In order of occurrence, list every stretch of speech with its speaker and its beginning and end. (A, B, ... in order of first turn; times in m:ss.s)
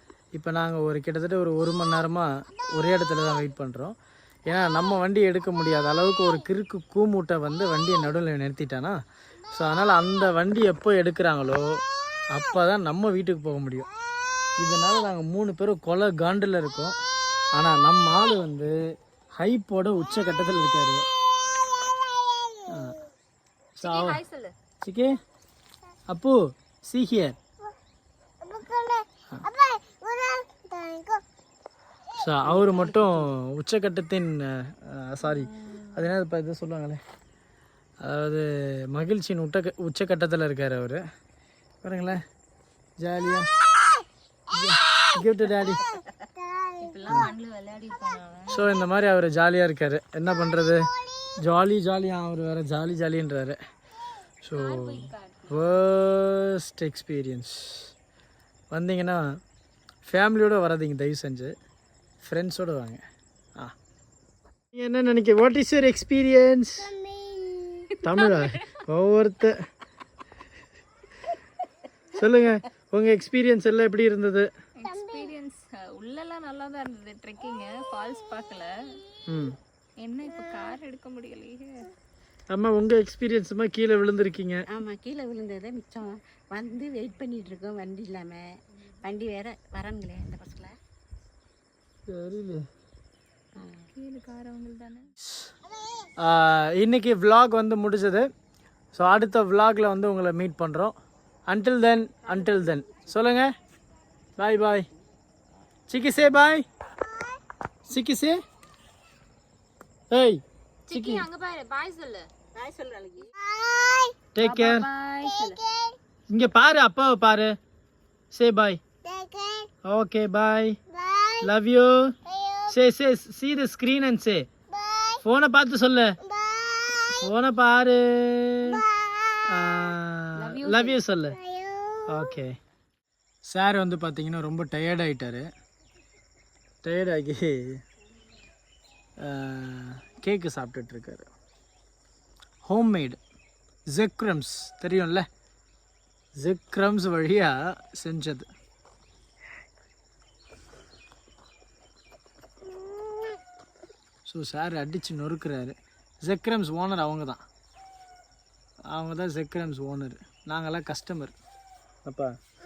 0:00.3-0:04.0 A
0:04.5-0:09.0 A
0:09.5-0:11.6 A
0:12.3-0:13.9 A
0:14.6-0:16.9 A
0:17.5-0:18.7 A
0:19.4-0:21.0 A
0:22.7-0:23.0 A
0:23.8-0:24.2 A
0:23.8-0:24.5 B
0:24.8-0:25.2 A
0:26.1-0:27.4 A
0:32.2-0:37.0 A
0:38.0-0:41.0 A
0:41.8-0:42.2 A
0:43.0-0:43.5 A
0:44.5-0:45.8 A
0:46.8-0:48.6 B
0:48.5-0:53.6 A
0:54.4-0:57.9 A
0:54.5-0:55.6 B
0:58.7-0:59.2 A
1:00.0-1:01.5 A
1:02.2-1:03.0 A
1:04.7-1:07.0 A
1:08.0-1:08.6 B
1:08.0-1:09.6 A
1:12.1-1:14.5 A
1:14.8-1:19.0 B
1:19.3-1:19.6 A
1:20.0-1:21.9 B
1:22.5-1:24.6 A
1:24.7-1:28.4 C
1:29.0-1:30.7 C
1:32.1-1:32.6 A
1:33.6-1:35.1 B
1:36.2-1:38.3 A
1:38.9-1:40.9 A
1:41.5-1:43.5 A
1:44.4-1:44.9 A
1:45.9-1:46.6 A
1:47.9-1:48.4 A
1:50.1-1:51.2 A
1:50.9-1:52.3 B
1:52.5-1:53.3 C
1:54.3-1:54.8 A
1:54.4-1:55.6 B
1:56.3-1:57.5 A
1:58.3-1:58.8 A
1:59.8-2:00.8 A
2:01.4-2:02.1 A
2:02.7-2:04.5 A
2:05.2-2:06.2 A
2:07.2-2:08.8 A
2:09.5-2:11.4 A
2:10.3-2:11.0 B
2:12.1-2:12.6 A
2:13.5-2:15.5 A
2:16.8-2:17.8 A
2:19.2-2:21.3 A
2:22.6-2:23.2 A
2:23.9-2:25.3 A
2:26.4-2:28.5 A
2:34.3-2:37.4 A
2:38.9-2:41.3 A
2:42.0-2:42.3 A